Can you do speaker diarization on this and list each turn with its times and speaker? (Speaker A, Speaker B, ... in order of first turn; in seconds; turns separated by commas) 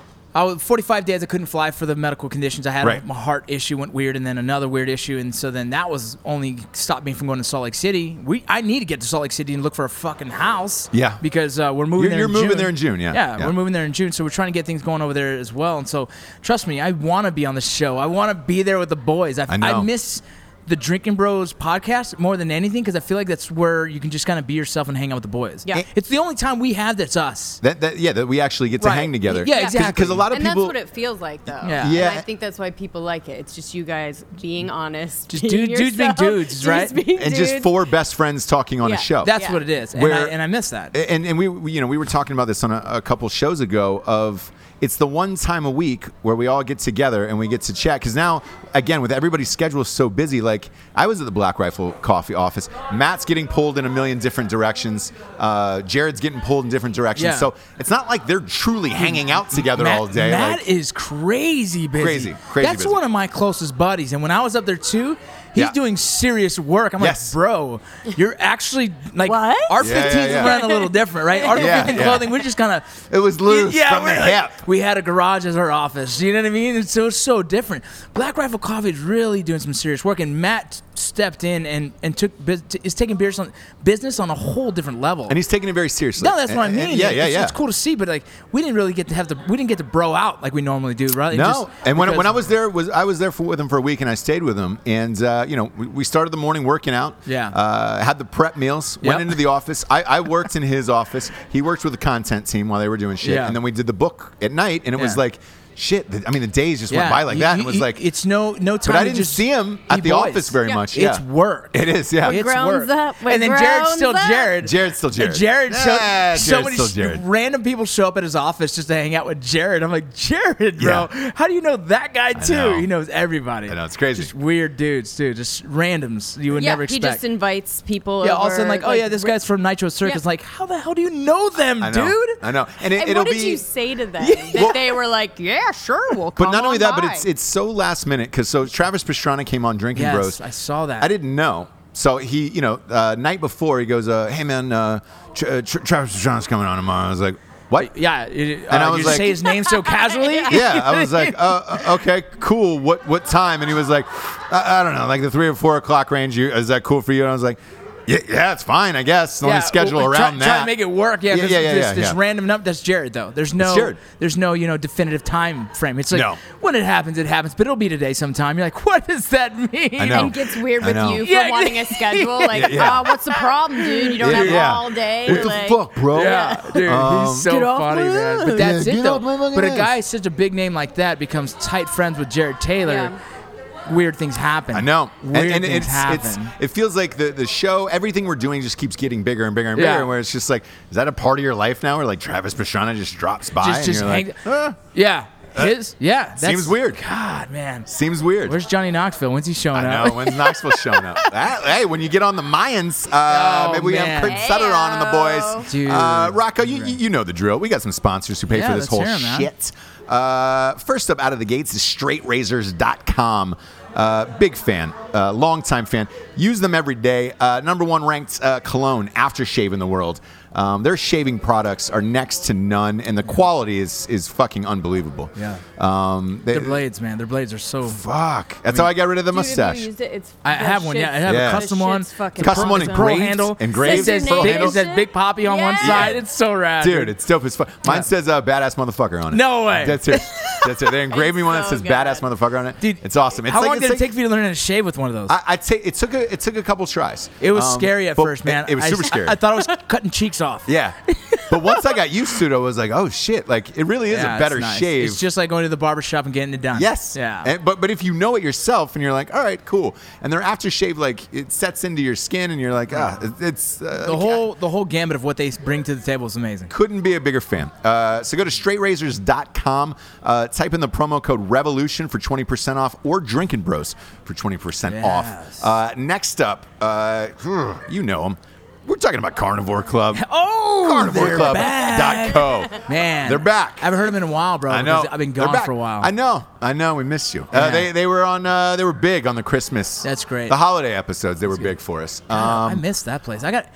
Speaker A: 0.3-27.6, Speaker B: 10.9-11.2, Speaker B: 12.0-13.5, Speaker B: 19.5-19.9, Speaker B: 27.6-30.7, Speaker A: 28.8-30.3, Speaker C: 29.4-37.8, Speaker A: 31.6-32.0, Speaker B: 31.8-32.2, Speaker A: 35.3-37.0, Speaker B: 37.1-39.4, Speaker C: 38.8-39.6, Speaker A: 39.2-41.0, Speaker B: 39.9-40.4, Speaker B: 40.9-60.6, Speaker A: 57.1-57.5, Speaker A: 59.0-72.9, Speaker B: 62.0-63.0, Speaker B: 67.0-67.3, Speaker C: 69.2-72.2, Speaker B: 69.8-70.6, Speaker B: 71.5-72.3, Speaker B: 73.1-74.6, Speaker A: 73.4-85.4, Speaker B: 85.3-87.6, Speaker A: 86.2-92.4, Speaker B: 91.3-108.0, Speaker A: 97.3-97.6, Speaker A: 99.0-99.4, Speaker A: 103.2-103.6, Speaker A: 106.9-127.2, Speaker B: 108.8-112.4, Speaker C: 112.2-114.6, Speaker B: 114.6-117.2, Speaker B: 120.8-121.1, Speaker B: 122.3-122.9, Speaker B: 123.7-124.3, Speaker C: 126.5-129.3, Speaker A: 128.2-132.4, Speaker B: 131.8-133.6, Speaker C: 132.9-137.3, Speaker A: 134.2-134.9, Speaker B: 134.6-134.8, Speaker B: 136.4-140.4, Speaker A: 139.9-141.1, Speaker B: 141.0-147.9, Speaker A: 147.8-151.8, Speaker B: 148.7-149.4, Speaker C: 149.5-150.5, Speaker B: 150.5-160.7, Speaker A: 159.4-170.5, Speaker B: 161.3-162.2, Speaker B: 163.6-164.0, Speaker B: 166.1-166.4, Speaker B: 170.0-171.3, Speaker C: 170.1-178.7, Speaker A: 171.1-175.5, Speaker B: 172.5-173.1, Speaker B: 174.2-177.5, Speaker A: 176.1-183.1, Speaker B: 178.5-179.9, Speaker C: 182.8-183.2, Speaker A: 183.9-186.5, Speaker B: 184.7-194.8, Speaker A: 189.8-190.1, Speaker A: 193.6-197.9, Speaker B: 196.4-197.0, Speaker B: 197.9-198.6, Speaker A: 198.4-201.3, Speaker B: 199.7-226.8, Speaker A: 203.3-204.4, Speaker C: 204.2-205.7, Speaker A: 205.7-207.0, Speaker A: 208.5-209.5, Speaker A: 225.4-225.6, Speaker A: 226.5-228.1, Speaker B: 227.8-229.9, Speaker C: 229.3-233.2, Speaker A: 230.4-237.1, Speaker B: 231.2-231.7, Speaker B: 232.4-234.8, Speaker C: 233.7-236.2, Speaker B: 235.8-236.2, Speaker B: 236.8-244.1, Speaker A: 239.3-240.7, Speaker C: 241.0-242.2, Speaker A: 242.8-245.4, Speaker B: 245.3-249.4, Speaker A: 247.4-252.0, Speaker B: 250.7-255.2, Speaker A: 254.1-257.5, Speaker B: 256.7-264.4, Speaker A: 264.0-266.7, Speaker B: 266.7-280.2, Speaker A: 274.9-275.6, Speaker A: 280.1-286.1, Speaker B: 280.8-283.9, Speaker B: 284.7-292.8, Speaker A: 287.5-287.9, Speaker A: 290.0-290.6, Speaker A: 292.3-293.7